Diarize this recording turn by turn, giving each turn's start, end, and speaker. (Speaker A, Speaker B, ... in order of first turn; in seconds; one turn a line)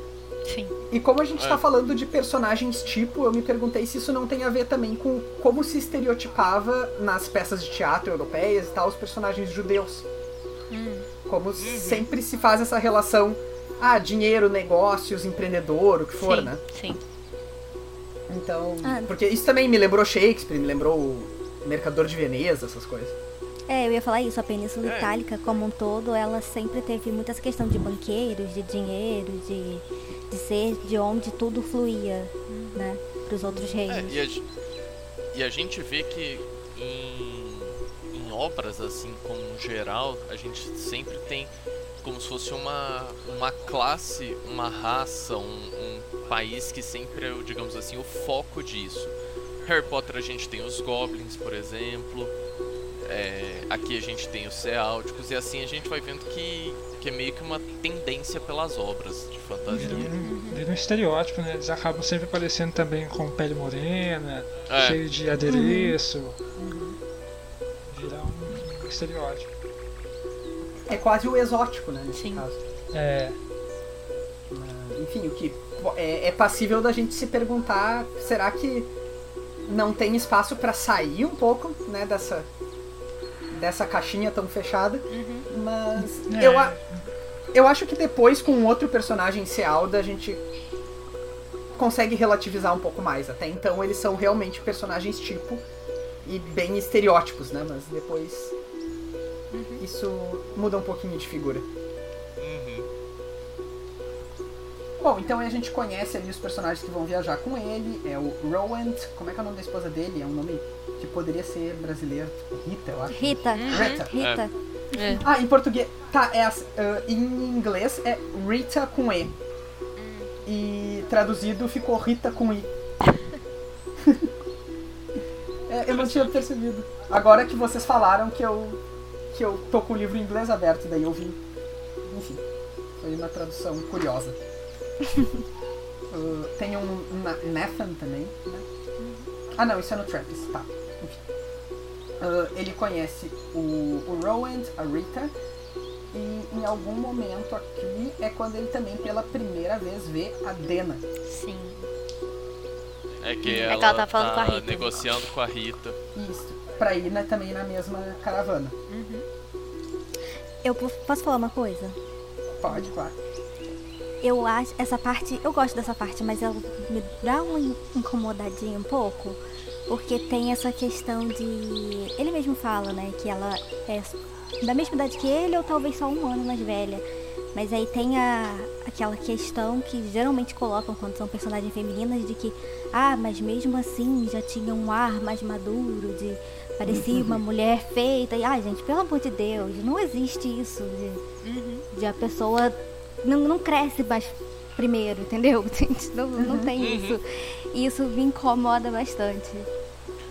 Speaker A: 0.5-0.7
Speaker B: 0.9-10.1
Speaker A: 10.7-11.1
Speaker B: 11.3-16.6
Speaker C: 11.6-12.1
Speaker A: 16.2-17.0
Speaker B: 18.3-23.1
Speaker D: 18.8-19.1
Speaker D: 23.7-34.2
Speaker C: 24.8-25.1
Speaker A: 32.5-32.9
Speaker B: 33.4-33.7
Speaker C: 33.9-34.4
Speaker C: 35.3-41.5
Speaker C: 42.0-49.1
Speaker C: 49.6-52.3
Speaker C: 53.0-60.1
Speaker E: 59.8-66.4
Speaker A: 59.8-60.6
Speaker C: 64.7-65.0
Speaker D: 65.5-65.9
Speaker B: 66.6-67.0
Speaker E: 67.9-69.5
Speaker B: 70.9-72.6
Speaker A: 72.1-72.5
Speaker E: 72.9-73.4
Speaker B: 74.5-78.9
Speaker B: 79.7-82.5
Speaker B: 83.5-86.8
Speaker A: 85.1-85.5
Speaker E: 86.2-86.9
Speaker B: 87.5-90.4
Speaker B: 91.8-95.6
Speaker B: 96.2-98.5
Speaker A: 99.5-99.8
Speaker B: 99.8-101.7
Speaker C: 102.4-102.9
Speaker B: 105.0-114.1
Speaker D: 113.1-114.5
Speaker A: 113.5-114.0
Speaker C: 114.2-114.5
Speaker A: 114.9-115.3
Speaker B: 115.0-119.3
Speaker A: 120.0-120.3
Speaker B: 120.5-122.7
Speaker B: 125.7-128.8
Speaker C: 125.9-126.3
Speaker B: 129.3-131.4
Speaker B: 132.1-132.4
Speaker B: 133.0-134.4
Speaker B: 136.1-138.7
Speaker A: 139.0-139.3
Speaker B: 139.6-141.2
Speaker B: 142.2-145.3
Speaker B: 146.1-151.0
Speaker A: 151.3-151.9
Speaker C: 153.2-156.0
Speaker A: 153.4-155.1
Speaker B: 156.2-158.8
Speaker A: 158.9-159.3
Speaker D: 160.6-162.0
Speaker B: 162.6-163.2
Speaker D: 164.2-177.0
Speaker D: 177.5-191.2
Speaker B: 186.9-187.4
Speaker A: 191.4-191.9
Speaker D: 191.9-199.7
Speaker B: 196.4-196.7
Speaker C: 196.8-197.2